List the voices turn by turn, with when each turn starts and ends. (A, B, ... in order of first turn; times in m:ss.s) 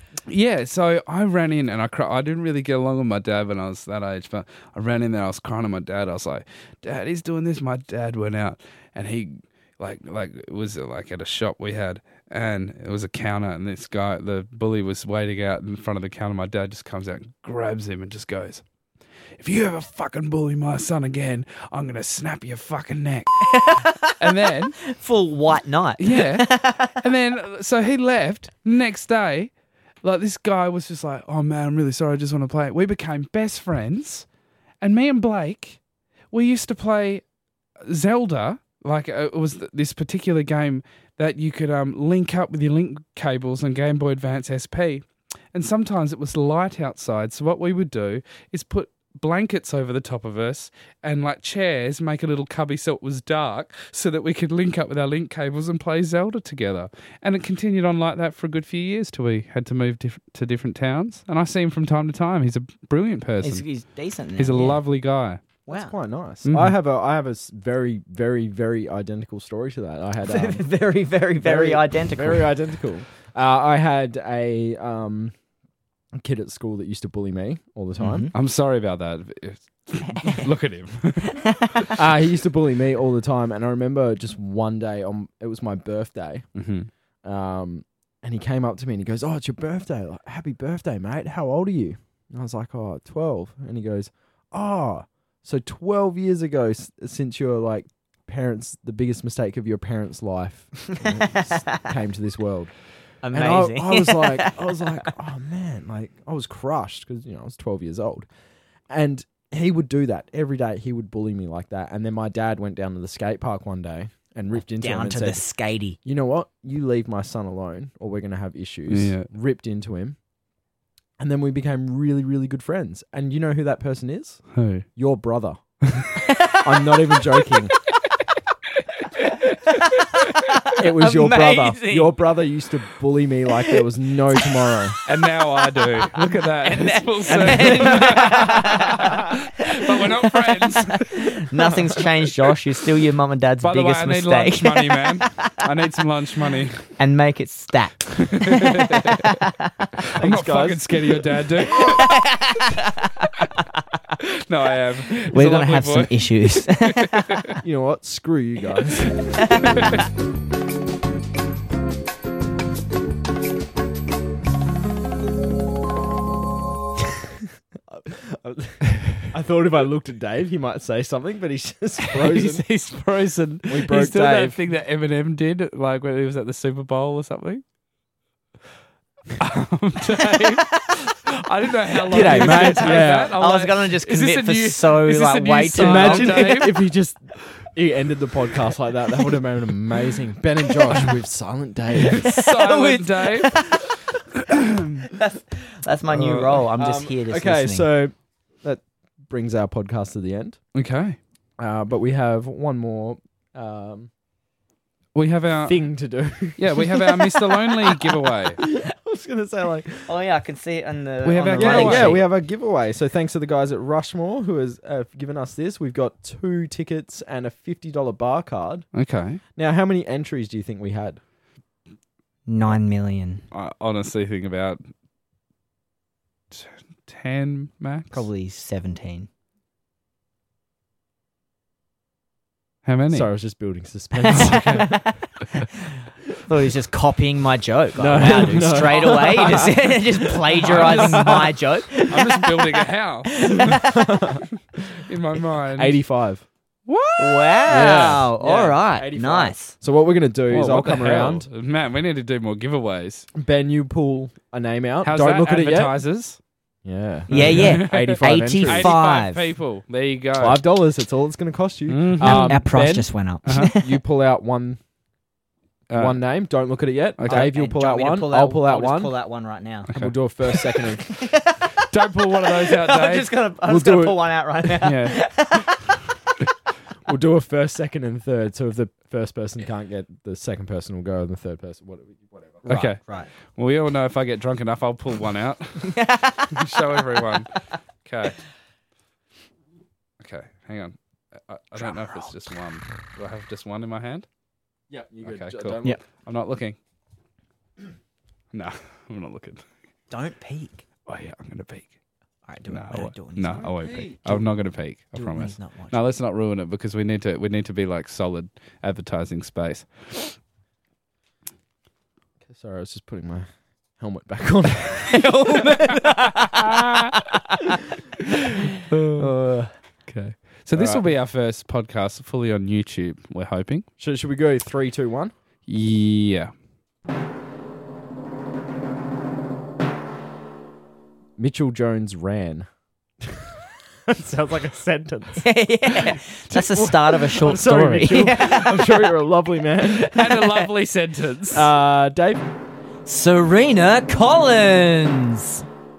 0:00.3-0:18.6 A
0:19.4-0:24.8 A
0:23.5-0:24.3 B
0:24.8-0:27.0 B
0:26.0-0:29.5 A
0:30.0-0:34.3 A
0:34.8-0:35.8 A
0:36.3-0:37.2 A
0:37.8-1:03.6 A
1:03.4-1:04.8 B
1:04.4-1:05.4 A
1:05.7-1:05.9 B
1:05.7-1:10.6 C
1:06.4-1:06.8 A
1:10.2-1:12.6 B
1:11.4-1:15.4 C
1:16.2-1:18.3 C
1:18.0-1:18.3 B
1:18.3-1:21.8 A
1:20.1-1:20.4 B
1:22.0-1:26.5 C
1:26.6-1:26.9 A
1:27.2-1:42.7 C
1:43.2-1:44.9 B
1:43.3-1:48.3 C
1:48.9-1:55.4 C
1:54.8-1:56.0 B
1:56.0-2:00.2 C
1:58.9-1:59.3 A
2:01.2-2:04.4 C
2:04.6-2:04.8 A
2:05.0-2:05.6 C
2:06.2-2:06.6 B
2:06.5-2:07.8 C
2:09.7-2:12.2 B
2:10.8-2:15.0 C
2:15.1-2:21.4 A
2:15.6-2:25.6 B
2:17.5-2:17.8 C
2:23.6-2:26.9 A
2:27.0-2:30.1 B
2:28.5-2:29.2 A
2:30.2-2:31.2 C
2:30.2-2:32.1 A
2:31.8-2:33.7 B
2:34.2-2:37.6 A
2:35.3-2:37.4 B
2:37.6-2:39.3 C
2:39.4-2:39.8 B
2:39.5-2:39.9 A
2:47.9-2:52.6 C
2:52.0-2:57.6 A
2:53.7-2:54.6 C
2:59.4-3:06.9 A
3:00.4-3:00.8 B
3:02.1-3:03.4 C
3:02.1-3:06.6 B
3:05.8-3:12.2 C
3:12.1-3:13.9 B
3:12.2-3:13.8 A
3:14.5-3:15.1 A
3:15.1-3:17.9 B
3:16.2-3:16.6 A
3:16.8-3:20.6 C
3:20.8-3:21.2 A
3:21.6-3:24.1 C
3:25.1-3:25.8 A
3:25.6-3:27.9 C
3:26.6-3:28.6 A
3:28.6-3:30.1 C
3:30.1-3:32.3 B
3:31.2-3:32.2 A
3:31.6-3:38.9 C
3:38.9-3:39.4 A
3:39.6-3:41.2 C
3:42.5-3:43.4 B
3:43.5-3:44.8 A
3:46.5-3:48.2 A
3:48.1-3:49.3 B
3:52.8-3:53.3 A
3:53.1-3:55.0 C
3:54.1-3:55.1 B
3:54.4-3:55.0 A
3:56.5-4:02.7 B
3:58.0-3:59.9 C
4:00.6-4:01.4 A
4:00.6-4:01.5 C
4:02.1-4:03.9 A
4:03.4-4:04.0 B
4:03.9-4:04.4 C
4:04.9-4:06.0 A
4:05.8-4:06.4 C
4:06.9-4:08.1 A
4:07.2-4:09.7 B
4:07.7-4:11.5 C
4:10.5-4:13.3 A
4:13.4-4:16.0 C
4:15.0-4:16.4 A
4:16.8-4:18.9 C
4:17.3-4:19.4 B
4:17.3-4:20.6 A
4:20.4-4:23.1 C
4:21.9-4:22.7 A
4:22.2-4:23.9 B
4:23.5-4:23.7 A
4:23.8-4:24.8 C
4:25.9-4:26.2 A
4:26.0-4:29.1 C
4:27.2-4:27.5 A
4:27.3-4:29.9 B
4:29.9-4:30.1 A
4:29.9-4:31.2 C
4:31.1-4:36.0 B
4:31.9-4:33.3 A
4:33.7-4:34.2 C
4:34.8-4:35.4 A
4:37.0-4:42.7 C
4:42.7-4:43.3 B
4:42.7-4:47.5 A
4:45.8-4:47.3 B
4:48.0-4:48.4 A
4:50.2-4:54.3 A
4:51.8-4:52.3 B
4:54.9-4:56.0 C
4:55.2-4:56.8 A
4:58.5-4:59.6 A
5:00.1-5:00.8 B
5:01.1-5:01.9 A
5:02.5-5:03.7 B
5:02.7-5:10.4 A
5:03.6-5:04.4 C
5:05.1-5:06.0 B
5:12.5-5:15.3 C
5:15.1-5:16.7 B
5:16.8-5:17.1 A
5:18.9-5:19.3 A
5:19.2-5:19.7 B
5:20.1-5:23.9 A
5:20.7-5:21.0 C
5:24.0-5:25.3 C
5:25.7-5:26.5 A
5:31.4-5:32.7 C
5:33.2-5:33.6 C
5:34.1-5:35.5 C
5:35.4-5:39.1 B
5:36.5-5:40.1 C
5:40.0-5:40.7 B
5:40.0-5:41.7 A
5:41.5-5:42.4 C
5:43.1-5:45.6 B